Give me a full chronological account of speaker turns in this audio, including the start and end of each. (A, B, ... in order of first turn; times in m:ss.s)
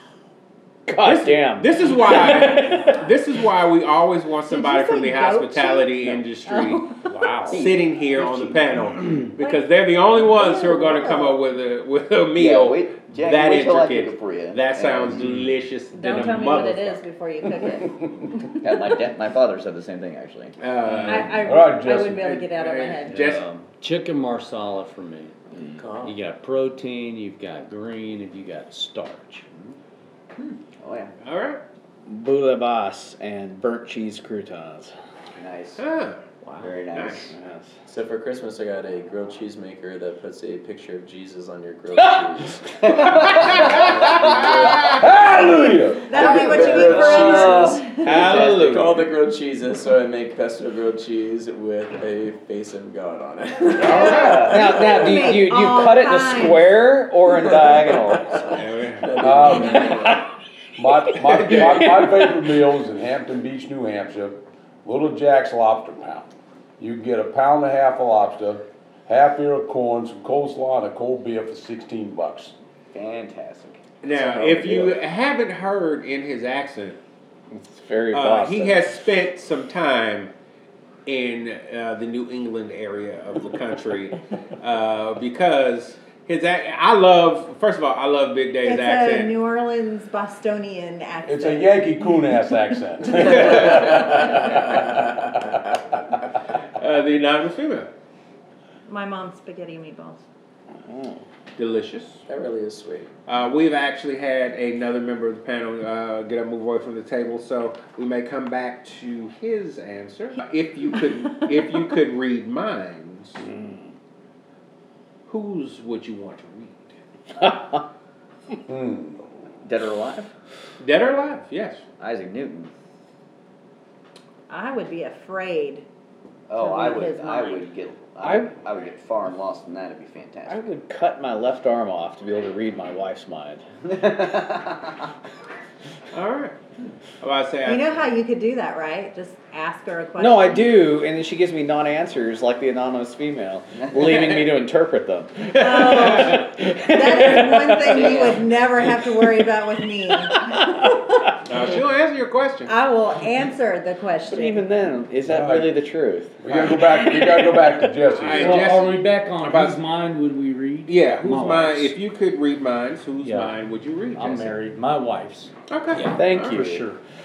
0:00.8-0:02.9 A
0:01.0-0:06.9 B
0:04.5-0:07.3 C
0:07.1-0:07.6 D
0:07.4-0:08.5 E
0:07.5-0:17.0 B
0:09.4-0:11.4 C
0:12.4-0:15.3 E
0:15.2-0:15.5 D
0:15.9-0:18.9 C
0:18.6-0:21.1 E
0:20.6-0:23.4 B
0:21.0-0:23.4 C
0:21.4-0:22.3 F
0:23.1-0:25.3 D
0:25.5-0:26.2 G
0:26.0-0:29.4 D
0:30.4-0:31.1 E
0:31.2-0:31.6 B
0:32.1-0:34.9 A
0:35.4-0:35.8 E
0:35.8-0:36.2 B
0:36.4-0:36.7 D
0:36.6-0:37.3 E
0:36.9-0:37.2 B
0:37.3-0:37.7 A
0:37.8-0:44.9 G
0:43.0-0:43.3 E
0:43.2-0:45.0 B
0:44.0-0:44.8 E
0:44.9-0:46.1 F
0:46.0-0:48.2 C
0:46.1-0:54.9 G
0:46.2-0:48.9 E
0:48.0-0:49.0 B
0:53.8-0:56.7 C
0:53.8-0:54.7 B
0:54.0-0:54.4 E
0:54.1-0:58.5 A
0:57.4-1:00.3 G
0:58.5-0:59.1 B
0:59.2-1:00.1 F
1:00.8-1:12.5 F
1:01.3-1:02.3 A
1:12.9-1:13.8 E
1:14.0-1:17.0 B
1:14.4-1:14.9 E
1:17.5-1:18.8 A
1:18.1-1:20.3 B
1:21.0-1:29.3 B
1:28.6-1:32.4 C
1:31.2-1:34.6 F
1:33.1-1:34.0 B
1:36.8-1:37.9 B
1:38.9-1:40.2 C
1:40.9-1:41.2 A
1:41.6-1:42.2 B
1:42.3-1:43.1 G
1:43.2-1:53.4 B
1:55.3-1:56.9 B
1:57.4-1:57.8 A
1:58.7-1:59.2 F
1:59.6-2:00.3 E
2:00.8-2:01.8 B
2:02.0-2:02.7 E
2:04.5-2:05.8 C
2:06.5-2:10.7 E
2:06.6-2:07.7 C
2:08.2-2:08.6 A
2:10.5-2:13.6 A
2:13.8-2:15.0 E
2:16.1-2:16.6 B
2:17.2-2:18.1 B
2:17.6-2:20.9 C
2:20.2-2:27.4 A
2:25.4-2:26.4 B
2:25.5-2:31.3 C
2:27.9-2:28.4 B
2:27.9-2:28.4 E
2:31.4-2:32.7 B
2:32.6-2:34.7 C
2:34.3-2:36.4 A
2:35.2-2:35.8 F
2:36.4-2:38.7 F
2:36.5-2:36.8 B
2:38.1-2:39.8 B
2:38.3-2:41.9 D
2:40.9-2:44.6 B
2:43.2-2:43.5 D
2:44.1-2:45.5 D
2:45.7-2:46.2 B
2:46.1-2:46.8 A
2:46.2-2:47.0 D